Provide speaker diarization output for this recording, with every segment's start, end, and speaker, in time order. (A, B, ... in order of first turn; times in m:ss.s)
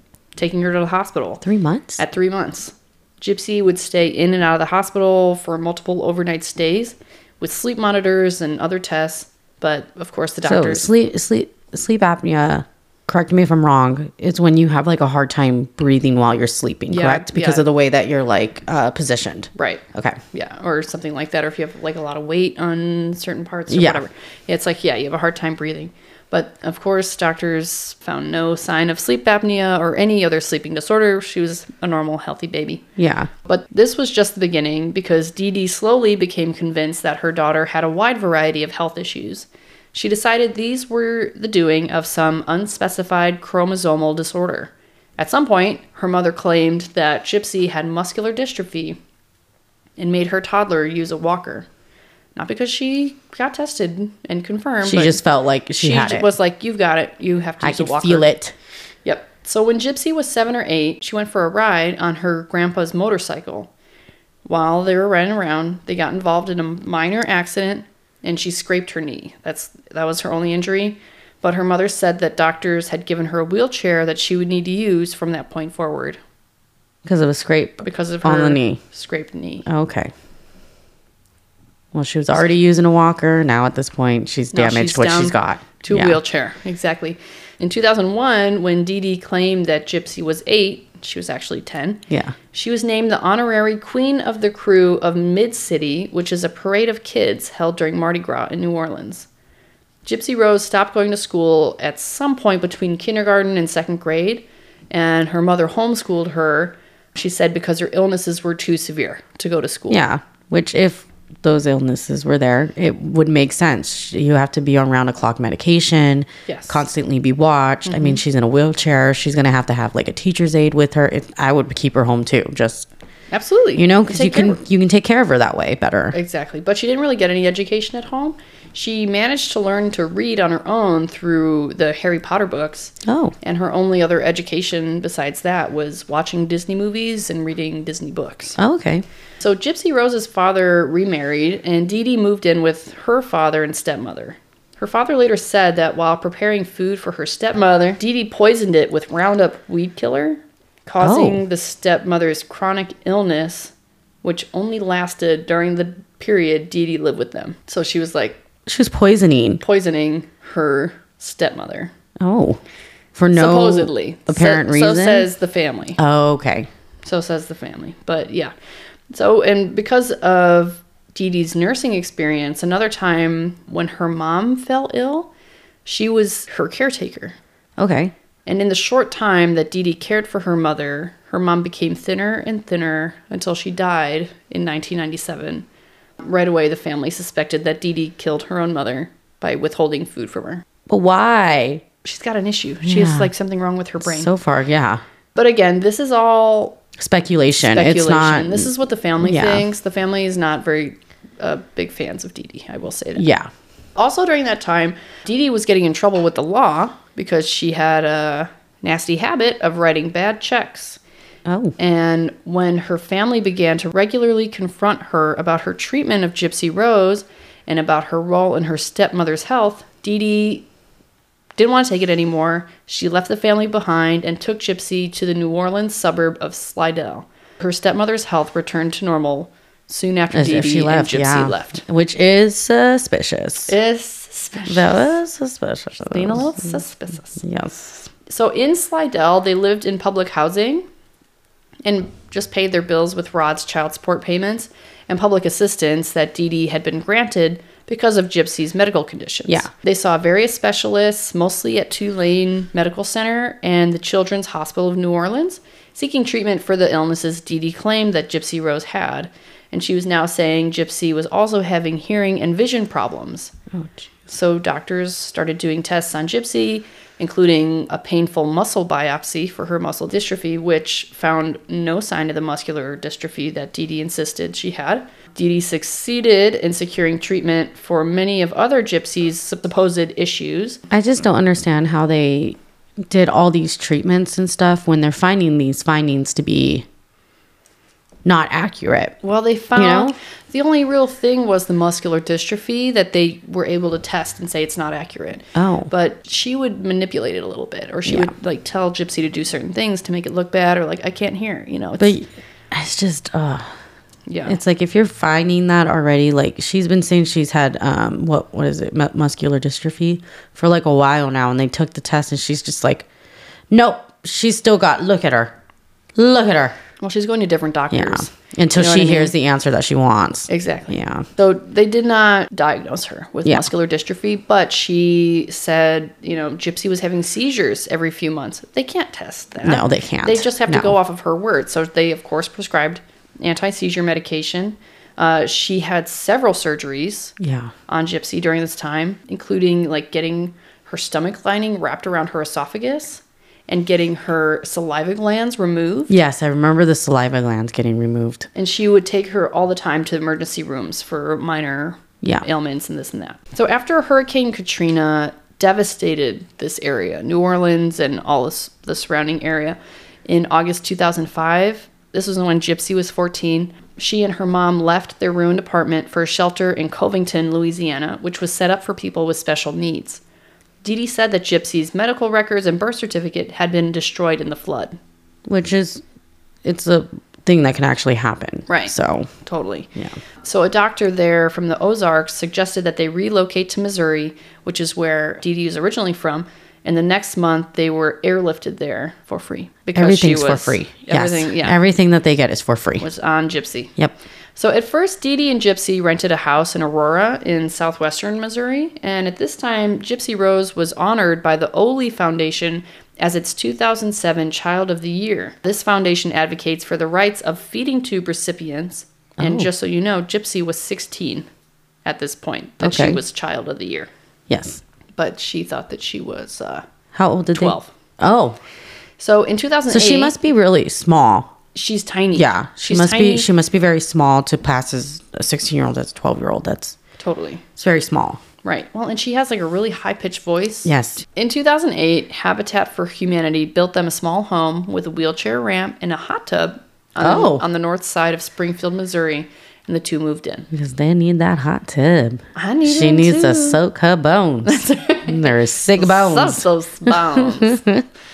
0:00.4-0:01.4 A
0:01.4-0:02.0 B
0:02.0-0:10.9 A
0:10.4-0:20.2 B
0:16.9-0:17.6 A
0:19.6-0:32.8 A
0:23.7-0:24.0 B
0:33.0-0:33.3 B
0:33.4-0:49.0 A
0:50.0-0:51.7 A
0:52.4-0:55.2 A
0:54.8-0:56.3 B
0:55.8-0:58.3 A
0:57.6-0:58.5 B
0:59.0-1:03.7 A
1:04.4-1:16.2 A
1:17.0-1:18.8 B
1:17.8-1:19.7 A
1:19.6-1:20.1 B
1:21.9-1:26.2 B
1:24.5-1:39.3 A
1:32.1-1:32.4 B
1:40.0-1:50.1 A
1:49.9-2:02.9 B
1:56.5-1:56.8 A
1:57.8-1:58.2 A
2:03.3-2:04.6 A
2:03.8-2:06.2 B
2:06.1-2:18.6 A
2:13.0-2:13.3 B
2:18.6-2:19.0 B
2:19.4-2:33.7 A
2:31.0-2:31.4 B
2:34.2-2:38.4 A
2:38.6-2:39.6 B
2:39.6-2:41.9 A
2:42.2-2:42.6 B
2:43.1-2:45.3 B
2:43.3-2:46.0 A
2:46.0-2:46.7 B
2:47.0-2:48.5 A
2:49.1-2:55.3 A
2:55.8-2:57.4 A
2:57.8-2:58.1 B
2:58.4-3:05.6 A
3:06.2-3:10.6 A
3:10.9-3:11.8 B
3:12.0-3:14.3 A
3:12.8-3:13.3 B
3:14.0-3:15.0 B
3:15.3-3:16.8 A
3:17.0-3:18.7 B
3:17.6-3:23.2 A
3:19.2-3:19.6 B
3:23.2-3:23.5 B
3:24.0-3:31.0 A
3:31.4-3:31.7 B
3:31.8-3:40.6 A
3:41.6-3:51.8 A
3:50.3-3:53.7 B
3:53.7-3:55.1 A
3:54.7-3:56.5 B
3:56.1-3:57.4 A
3:57.4-3:58.1 B
3:58.3-4:00.8 A
4:01.8-4:23.5 A
4:23.7-4:24.0 B
4:24.3-4:40.8 A
4:40.9-4:46.9 B
4:48.2-4:49.2 B
4:49.2-5:02.2 A
4:49.8-4:50.2 B
4:55.5-4:55.9 B
4:58.0-4:58.3 B
5:02.0-5:03.7 B
5:04.3-5:04.6 A
5:04.4-5:13.0 B
5:13.7-5:15.5 B
5:16.1-5:16.8 B
5:17.0-5:19.3 A
5:17.9-5:21.3 B
5:20.5-5:37.3 A
5:29.6-5:31.0 B
5:37.4-5:37.7 B
5:37.9-5:46.2 A
5:46.1-5:48.5 B
5:48.5-6:10.2 A
6:10.8-6:15.0 A
6:15.5-6:16.0 B
6:16.6-6:19.3 B
6:18.7-6:19.9 A
6:20.4-6:31.8 A
6:29.9-6:33.1 B
6:33.0-6:33.9 A
6:34.6-6:51.4 A
6:49.4-6:49.7 B
6:52.0-6:54.1 A
6:52.8-6:53.2 B
6:54.5-6:54.8 B
6:55.2-6:56.8 A
6:57.1-6:58.6 B
6:57.5-6:57.9 A
6:59.2-7:00.3 A
6:59.9-7:01.5 B
7:01.7-7:03.5 A
7:02.3-7:07.0 B
7:07.2-7:07.6 A
7:07.8-7:08.4 B
7:08.6-7:20.7 A
7:10.8-7:11.2 B
7:17.2-7:17.6 B
7:20.7-7:28.0 B
7:22.5-7:23.8 A
7:24.6-7:27.8 A